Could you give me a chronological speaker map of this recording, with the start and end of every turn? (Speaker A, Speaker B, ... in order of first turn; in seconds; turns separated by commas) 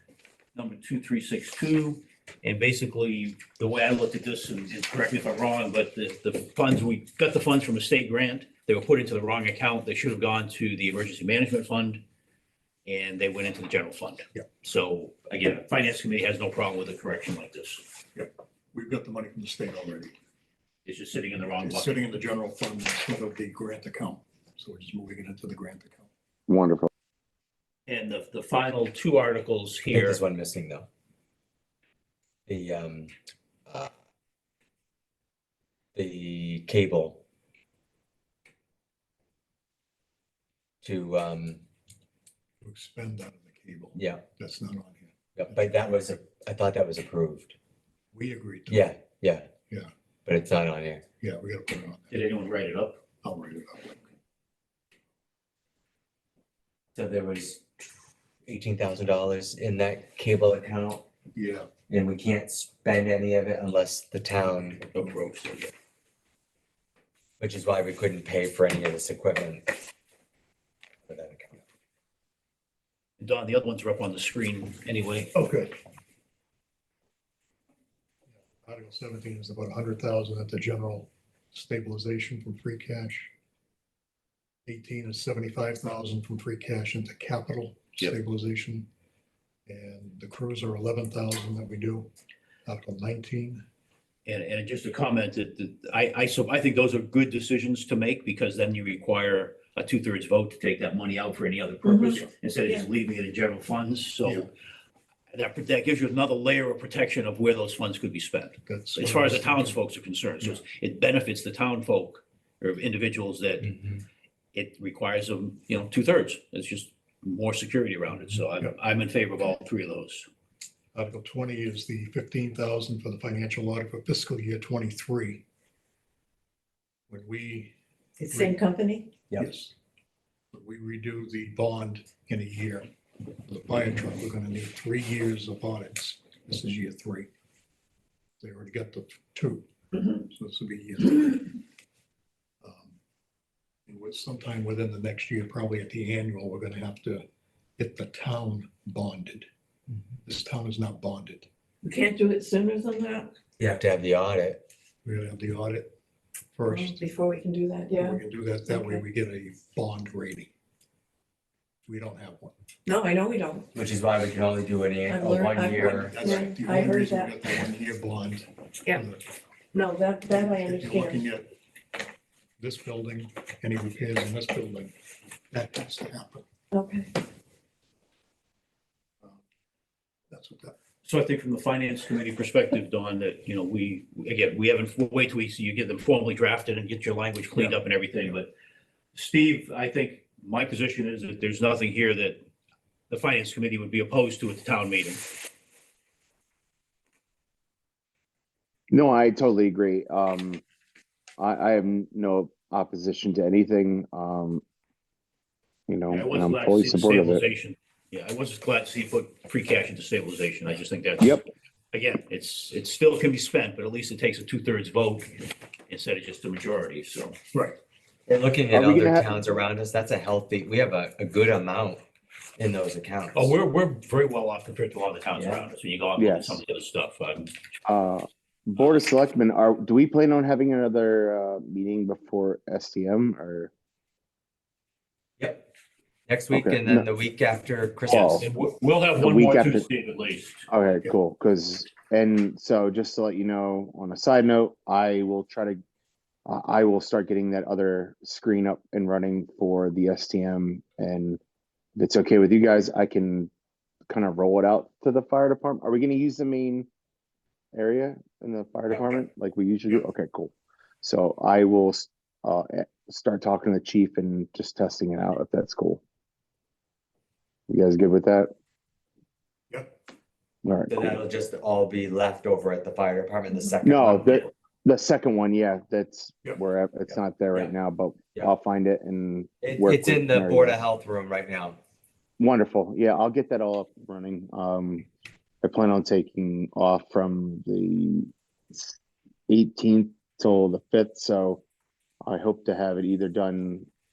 Speaker A: 0.6-12.0, Speaker A: 12.9-17.8, Speaker B: 18.1-20.1, Speaker A: 20.9-22.0, Speaker B: 21.6-26.1, Speaker C: 26.5-26.9, Speaker A: 27.9-30.2, Speaker D: 29.9-30.9, Speaker D: 32.5-33.1, Speaker D: 36.0-37.2, Speaker D: 40.8-41.6, Speaker B: 42.6-45.9, Speaker D: 44.0-44.2, Speaker D: 45.4-47.5, Speaker B: 48.1-48.9, Speaker D: 48.7-49.5, Speaker D: 50.3-51.0, Speaker B: 51.2-52.2, Speaker A: 52.1-53.0, Speaker B: 53.2-54.0, Speaker D: 57.0-57.6, Speaker D: 58.5-61.0, Speaker B: 61.3-61.7, Speaker D: 61.9-64.8, Speaker A: 64.9-65.7, Speaker D: 67.4-69.7, Speaker D: 71.1-71.6, Speaker A: 73.2-75.3, Speaker B: 75.3-75.8, Speaker B: 78.4-83.3, Speaker B: 84.7-88.9, Speaker B: 89.7-92.1, Speaker B: 92.7-93.6, Speaker A: 94.3-104.5, Speaker E: 101.9-102.2, Speaker A: 105.3-113.8, Speaker B: 108.7-109.8, Speaker A: 114.5-120.3, Speaker B: 120.9-125.4, Speaker B: 127.1-127.7, Speaker E: 128.2-129.1, Speaker B: 128.2-128.6, Speaker B: 129.3-129.7, Speaker B: 130.5-132.9, Speaker B: 133.4-137.3, Speaker B: 138.4-139.7, Speaker B: 140.2-141.5, Speaker B: 142.6-142.9, Speaker B: 143.9-147.2, Speaker B: 147.8-149.5, Speaker B: 150.2-151.5, Speaker E: 151.8-153.3, Speaker D: 153.6-154.6, Speaker B: 155.0-155.9, Speaker B: 156.6-157.0, Speaker E: 156.7-159.0, Speaker B: 157.9-160.5, Speaker B: 161.9-162.6, Speaker E: 162.9-163.7, Speaker D: 163.7-166.2, Speaker E: 165.1-167.4, Speaker B: 165.8-169.2, Speaker E: 169.7-171.2, Speaker B: 170.3-171.5, Speaker B: 172.6-174.9, Speaker B: 175.5-176.4, Speaker E: 176.7-177.1, Speaker B: 180.3-180.8, Speaker A: 181.0-188.5, Speaker A: 189.2-192.4, Speaker A: 193.1-195.2, Speaker C: 198.9-200.6, Speaker C: 201.4-204.6, Speaker C: 205.9-207.4, Speaker A: 206.1-217.4, Speaker D: 218.3-222.0, Speaker C: 218.7-219.6, Speaker D: 222.6-223.6, Speaker A: 223.3-227.6, Speaker D: 225.4-225.6, Speaker C: 226.2-226.6, Speaker C: 227.8-233.7, Speaker D: 235.4-235.7, Speaker D: 236.3-238.5, Speaker C: 236.5-237.1, Speaker C: 238.1-238.5, Speaker A: 238.2-240.7, Speaker C: 239.2-239.9, Speaker C: 240.7-245.8, Speaker C: 246.5-251.4, Speaker C: 252.0-253.5, Speaker C: 254.1-256.9, Speaker C: 257.7-266.0, Speaker C: 267.7-268.5, Speaker C: 270.6-271.2, Speaker D: 270.9-274.5, Speaker C: 273.8-280.8, Speaker D: 279.6-281.8, Speaker C: 282.4-285.1, Speaker C: 285.6-289.0, Speaker C: 289.5-291.6, Speaker C: 292.2-293.9